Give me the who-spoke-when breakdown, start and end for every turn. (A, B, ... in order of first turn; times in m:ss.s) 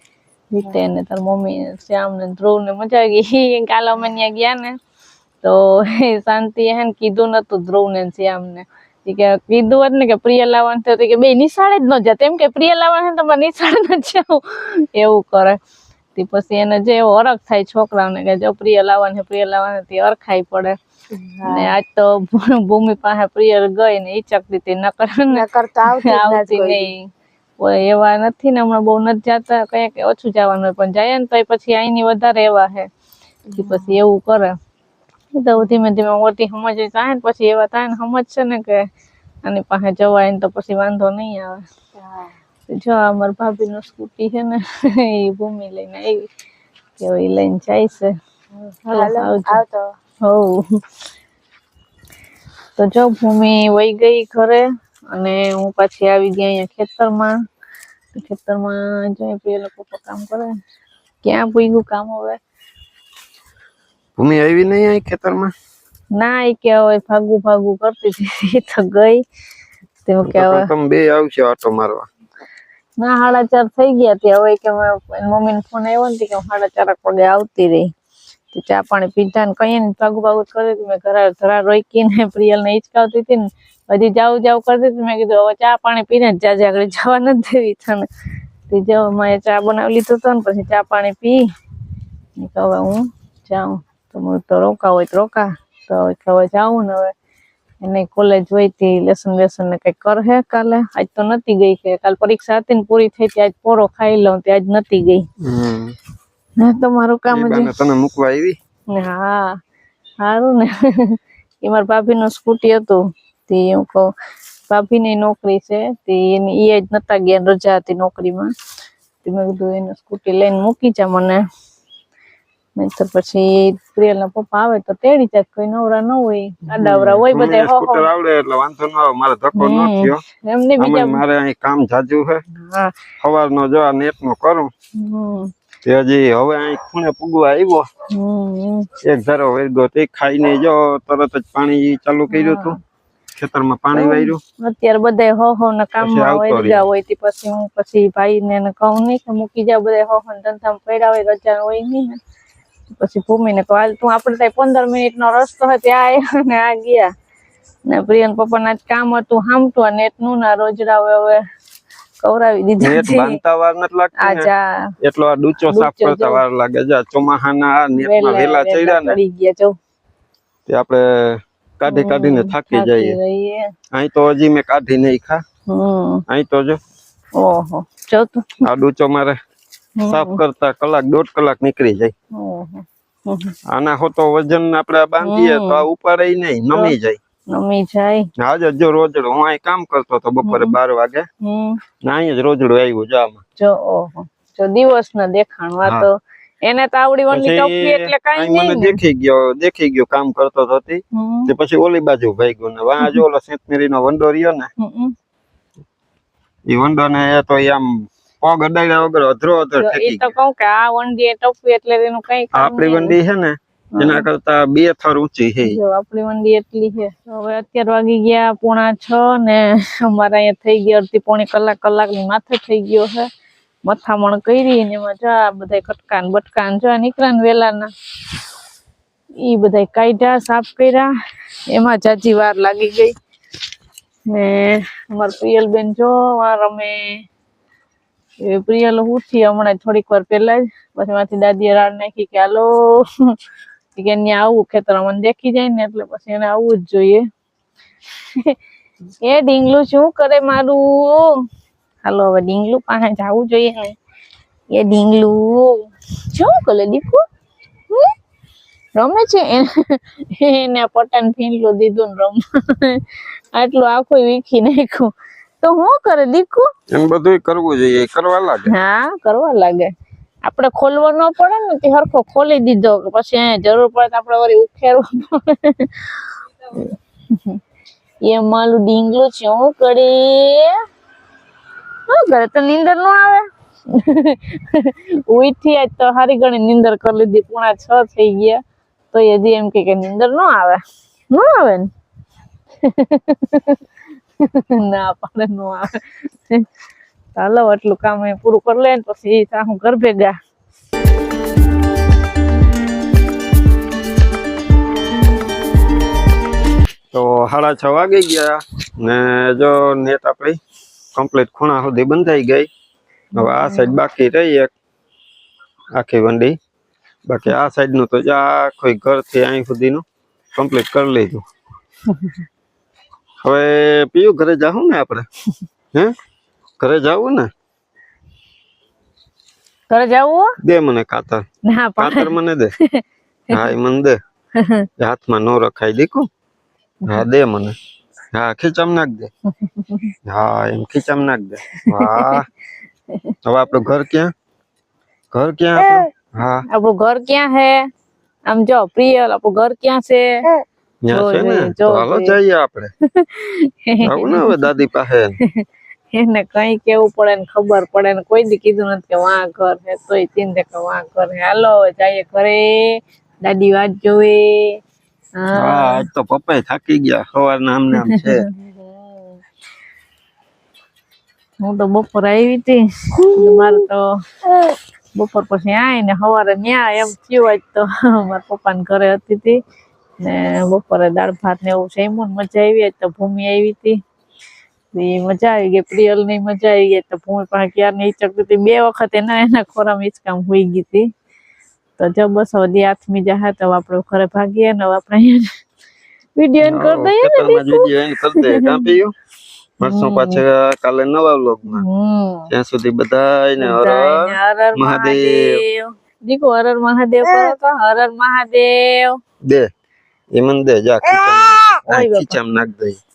0:00.5-0:04.8 A
0:00.6-0:00.9 B
0:05.4-0:15.6 A
0:16.1-0:20.8 A
0:21.1-0:21.8 B
0:21.5-0:27.1 A
0:25.3-0:26.9 B
0:27.6-0:32.9 A
0:33.5-0:34.0 B
0:33.6-0:34.5 A
0:35.3-0:38.9 A
0:39.4-0:41.6 A
0:42.0-0:42.4 B
0:42.7-0:46.3 A
0:47.0-0:48.1 A
0:48.9-0:49.6 A
0:48.9-0:49.9 B
0:50.2-0:50.8 A
0:52.8-0:57.3 A
0:58.1-1:00.6 A
1:01.2-1:02.4 A
1:04.2-1:05.5 C
1:06.2-1:09.2 A
1:10.0-1:10.7 A
1:10.3-1:12.1 C
1:13.0-1:17.9 A
1:18.5-1:28.1 A
1:28.7-1:31.4 A
1:32.4-1:37.1 A
1:37.8-1:45.2 A
1:45.4-1:46.0 C
1:46.6-1:47.7 A
1:47.3-1:48.6 C
1:48.9-1:49.6 A
1:50.2-1:54.1 A
1:54.7-1:58.5 A
1:59.2-2:01.4 A
2:02.8-2:08.1 A
2:06.8-2:10.2 C
2:09.6-2:11.2 A
2:10.8-2:12.4 C
2:12.5-2:13.0 A
2:13.2-2:14.7 C
2:15.0-2:15.5 A
2:15.8-2:17.9 C
2:18.1-2:18.9 A
2:19.0-2:22.8 C
2:22.3-2:22.8 A
2:23.4-2:24.4 C
2:23.9-2:32.2 A
2:26.0-2:26.8 C
2:32.9-2:37.1 A
2:37.9-2:41.4 A
2:42.2-2:43.4 A
2:42.8-2:44.5 C
2:44.2-2:44.9 A
2:45.0-2:49.2 C
2:45.7-2:46.4 A
2:47.9-2:49.7 A
2:50.7-2:53.2 C
2:51.9-2:53.7 A
2:53.9-2:55.4 C
2:55.7-2:56.2 A
2:56.3-2:56.8 C
2:57.4-2:58.6 A
2:58.6-2:59.4 C
3:00.0-3:00.4 A
3:00.1-3:02.1 C
3:02.3-3:03.5 A
3:03.7-3:07.2 C
3:05.2-3:05.9 A
3:07.5-3:08.3 A
3:08.4-3:11.3 C
3:10.4-3:10.8 A
3:11.4-3:11.8 A
3:12.0-3:13.4 C
3:13.6-3:19.0 A
3:17.3-3:24.7 C
3:21.1-3:21.5 A
3:24.8-3:25.1 A
3:26.7-3:30.3 C
3:29.8-3:33.2 A
3:32.5-3:35.8 C
3:34.0-3:34.2 A
3:35.6-3:43.3 A
3:43.9-3:47.9 A
3:49.4-3:51.1 A
3:51.7-3:53.1 A
3:54.3-3:57.2 A
3:58.4-4:03.4 A
4:04.0-4:07.2 A
4:09.2-4:11.3 A
4:12.0-4:14.0 A
4:14.7-4:17.2 A
4:19.0-4:26.7 A
4:26.9-4:28.7 C
4:28.7-4:29.9 A
4:30.4-4:37.6 A
4:38.3-4:40.8 A
4:42.1-4:48.6 A
4:49.1-4:50.8 A
4:51.3-4:51.9 A
4:52.8-4:53.8 A
4:54.4-4:56.6 A
4:57.4-5:00.4 A
5:07.1-5:10.6 C
5:11.1-5:12.7 C
5:13.3-5:14.0 A
5:13.4-5:14.7 C
5:16.0-5:16.6 C
5:17.3-5:20.0 C
5:20.6-5:21.4 C
5:22.1-5:22.4 A
5:23.4-5:25.3 C
5:26.8-5:27.5 C
5:29.9-5:30.5 A
5:30.6-5:31.4 C
5:31.6-5:33.0 A
5:32.0-5:32.7 C
5:33.5-5:34.2 C
5:34.6-5:34.9 A
5:35.0-5:36.3 C
5:37.1-5:37.8 C
5:38.3-5:39.3 C
5:39.6-5:40.1 A
5:40.3-5:42.5 C
5:41.8-5:42.4 A
5:43.4-5:44.3 C
5:45.3-5:46.6 C
5:46.7-5:47.8 A
5:48.5-5:50.3 A
5:51.0-5:52.9 C
5:51.1-5:52.4 A
5:53.2-5:54.7 A
5:54.0-5:55.4 C
5:55.4-6:04.8 A
6:05.4-6:06.0 A
6:05.6-6:08.4 C
6:08.0-6:09.2 A
6:11.6-6:14.1 A
6:15.1-6:19.6 A
6:20.2-6:24.0 A
6:24.9-6:31.1 A
6:32.0-6:35.4 A
6:36.4-6:37.9 A
6:36.6-6:39.1 C
6:38.4-6:38.8 A
6:39.8-6:41.8 C
6:39.8-6:40.4 A
6:41.7-6:42.5 A
6:42.5-6:45.6 C
6:43.6-6:49.2 A
6:50.4-6:53.0 C
6:51.8-6:52.4 A